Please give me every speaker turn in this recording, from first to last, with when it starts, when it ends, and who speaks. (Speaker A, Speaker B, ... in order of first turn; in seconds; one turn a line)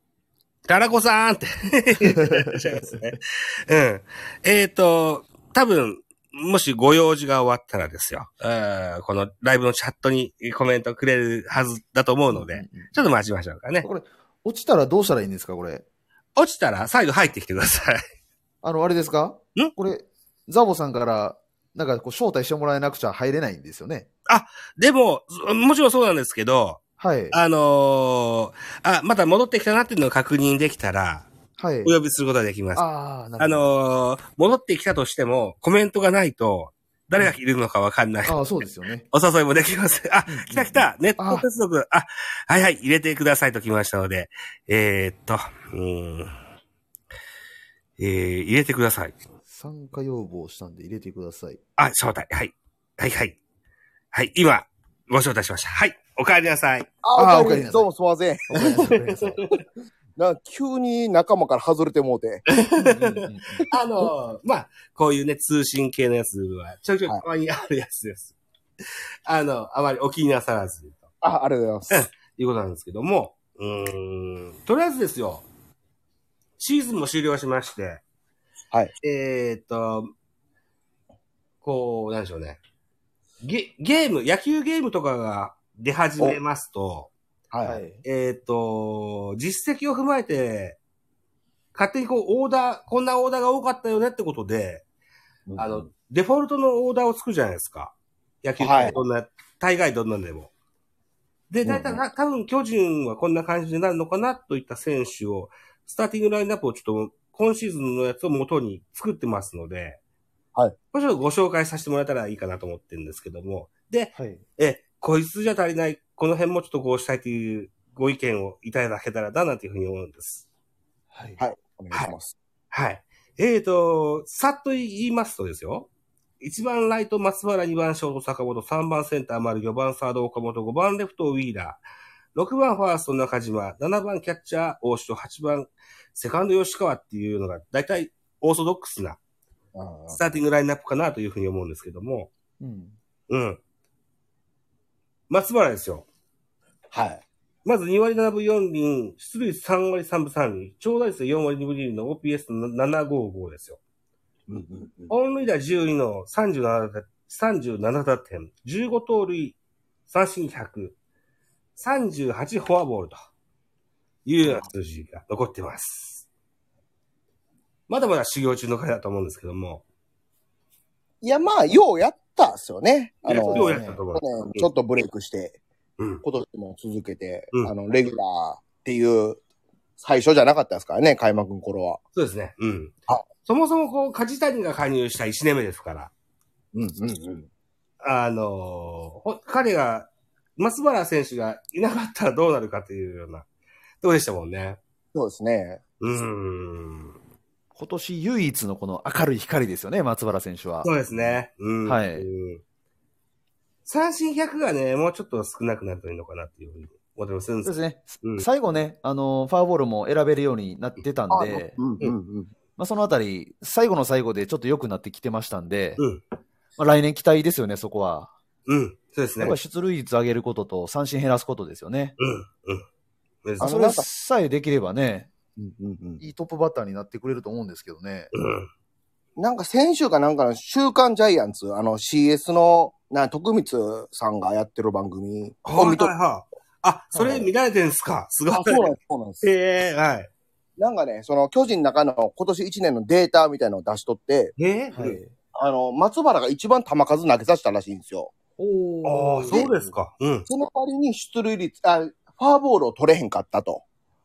Speaker A: 0.7-13.9
Speaker B: 2.2-3.0
Speaker B: 12.3-12.9
Speaker B: 13.8-15.8
Speaker A: 16.4-18.0
Speaker B: 18.6-24.1
Speaker A: 24.3-31.3
Speaker B: 27.0-27.4
Speaker B: 31.6-31.9
Speaker A: 31.8-32.9
Speaker B: 32.8-33.6
Speaker A: 33.4-38.5
Speaker B: 38.3-39.1
Speaker A: 39.1-46.3
Speaker B: 40.3-41.5
Speaker A: 48.0-49.2
Speaker B: 49.5-51.6
Speaker A: 51.8-53.4
Speaker A: 54.1-56.9
Speaker C: 57.0-59.0
Speaker B: 57.2-57.9
Speaker B: 58.5-59.4
Speaker A: 58.9-59.5
Speaker C: 60.2-62.5
Speaker A: 62.5-68.3
Speaker B: 62.8-63.7
Speaker A: 69.3-71.1
Speaker C: 71.2-72.0
Speaker A: 71.9-75.5
Speaker A: 76.6-78.0
Speaker A: 79.0-80.1
Speaker A: 81.6-82.6
Speaker A: 83.4-87.1
Speaker C: 87.5-87.8
Speaker B: 87.6-88.0
Speaker A: 88.0-90.8
Speaker A: 91.7-94.8
Speaker C: 95.5-95.8
Speaker A: 95.6-100.5
Speaker C: 98.6-99.0
Speaker A: 101.5-110.0
Speaker C: 101.7-102.0
Speaker A: 110.9-120.5
Speaker B: 114.2-114.4
Speaker B: 121.1-121.4
Speaker C: 121.4-122.3
Speaker A: 122.7-125.9
Speaker A: 126.4-131.8
Speaker A: 132.3-139.2
Speaker C: 139.8-140.2
Speaker A: 140.1-142.3
Speaker B: 142.6-143.0
Speaker A: 143.3-143.6
Speaker A: 145.3-146.1
Speaker C: 146.9-147.2
Speaker A: 147.7-153.8
Speaker C: 154.5-155.1
Speaker A: 155.1-161.0
Speaker A: 161.8-163.2
Speaker A: 164.2-166.3
Speaker A: 167.9-169.8
Speaker C: 171.2-175.6
Speaker A: 173.2-174.7
Speaker B: 173.3-174.0
Speaker C: 176.2-179.4
Speaker C: 180.0-182.0
Speaker A: 182.2-186.1
Speaker C: 186.7-187.5
Speaker A: 188.0-193.5
Speaker A: 194.0-194.8
Speaker C: 195.1-195.8
Speaker A: 196.0-197.2
Speaker B: 197.8-201.0
Speaker A: 200.8-202.6
Speaker B: 201.9-202.3
Speaker A: 203.9-208.5
Speaker B: 207.7-211.8
Speaker C: 211.3-212.5
Speaker B: 212.8-216.0
Speaker B: 216.8-218.3
Speaker A: 218.7-219.6
Speaker B: 219.4-222.2
Speaker A: 222.2-222.8
Speaker A: 223.4-223.7
Speaker C: 223.6-224.1
Speaker B: 223.6-225.3
Speaker C: 225.6-226.2
Speaker B: 226.2-228.3
Speaker A: 228.3-228.7
Speaker C: 229.4-236.1
Speaker A: 235.7-240.3
Speaker C: 237.2-237.5
Speaker C: 238.5-239.4
Speaker C: 240.8-248.3
Speaker A: 244.6-245.0
Speaker B: 244.9-245.3
Speaker B: 248.6-249.7
Speaker A: 249.0-250.5
Speaker C: 250.5-253.8